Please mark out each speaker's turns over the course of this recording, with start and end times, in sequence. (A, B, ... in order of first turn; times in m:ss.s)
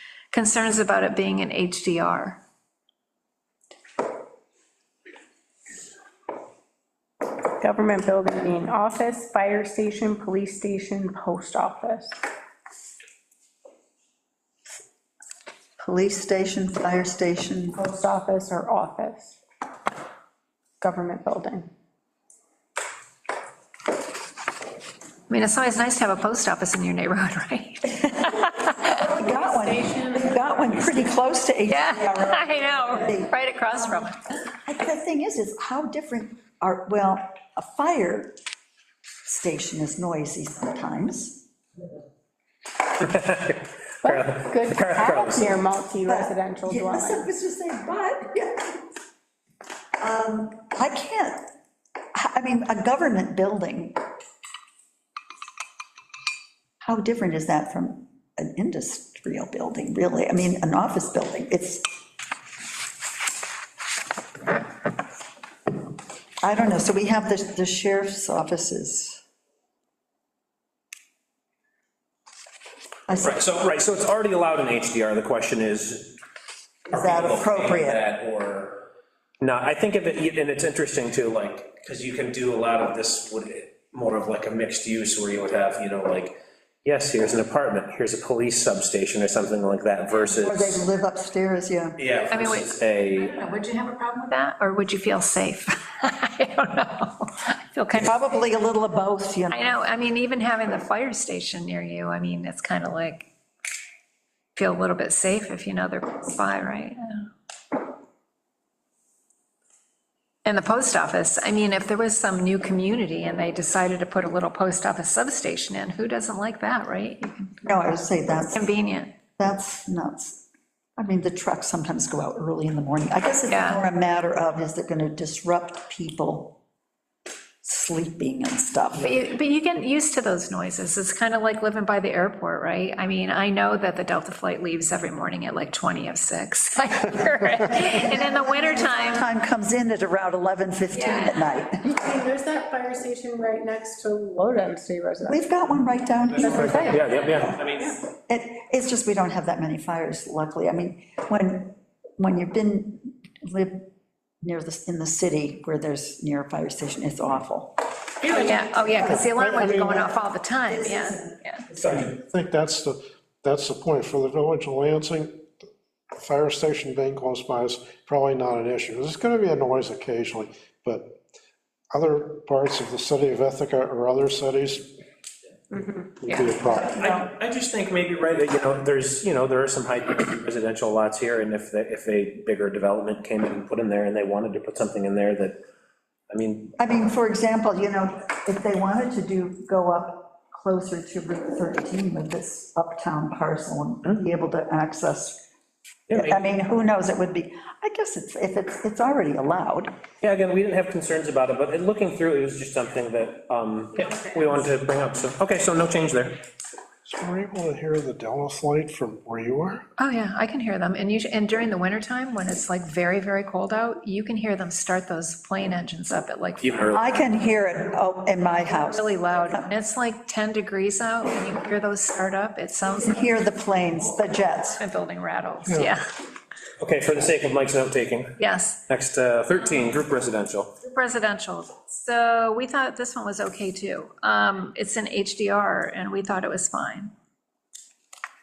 0:00.3-0:02.4 A
0:07.6-0:12.2 B
0:15.8-0:17.8 C
0:17.8-0:19.4 B
0:20.8-0:21.7 B
0:25.3-0:28.8 A
0:28.0-0:34.1 C
0:29.6-0:30.4 B
0:31.7-0:34.2 A
0:34.6-0:38.4 C
0:39.2-0:41.4 C
0:43.0-0:45.5 D
0:44.0-0:47.2 B
0:46.0-0:48.8 C
0:50.0-0:51.5 C
0:52.1-0:54.0 C
0:56.8-1:01.9 C
1:06.4-1:09.2 C
1:13.1-1:13.4 C
1:13.2-1:16.2 D
1:16.9-1:18.8 D
1:16.9-1:18.0 C
1:19.4-1:30.8 D
1:30.4-1:32.0 C
1:32.0-1:33.3 D
1:32.3-1:38.1 A
1:37.9-1:39.6 C
1:39.5-1:43.3 A
1:44.5-1:47.3 A
1:50.4-1:57.5 A
1:57.6-1:58.7 C
1:58.5-1:59.1 A
1:59.4-2:00.4 C
2:01.0-2:06.6 C
2:03.5-2:03.8 A
2:07.6-2:09.2 C
2:09.0-2:19.2 A
2:17.7-2:21.9 C
2:20.9-2:21.5 A
2:21.8-2:25.4 B
2:25.2-2:27.0 C
2:26.3-2:28.0 D
2:26.4-2:27.5 B
2:28.1-2:33.9 C
2:34.4-2:38.3 C
2:38.2-2:39.1 D
2:38.3-2:41.6 A
2:39.2-2:40.0 E
2:40.7-2:42.0 C
2:41.8-2:42.1 D
2:42.1-2:45.5 E
2:46.1-2:51.1 E
2:51.9-2:54.9 E
2:55.7-2:56.2 B
2:56.2-2:57.0 E
2:56.6-3:05.6 D
3:06.3-3:06.7 D
3:06.8-3:15.4 C
3:16.1-3:16.4 D
3:16.1-3:19.9 C
3:20.2-3:26.4 D
3:27.0-3:29.8 E
3:30.0-3:37.0 A
3:36.6-3:37.2 D
3:36.9-3:39.7 C
3:38.7-3:43.3 A
3:43.0-3:44.8 C
3:44.8-3:46.1 A
3:45.7-3:45.9 E
3:46.8-3:48.4 D
3:48.4-3:48.8 A
3:48.9-3:50.7 D
3:50.8-3:57.1 A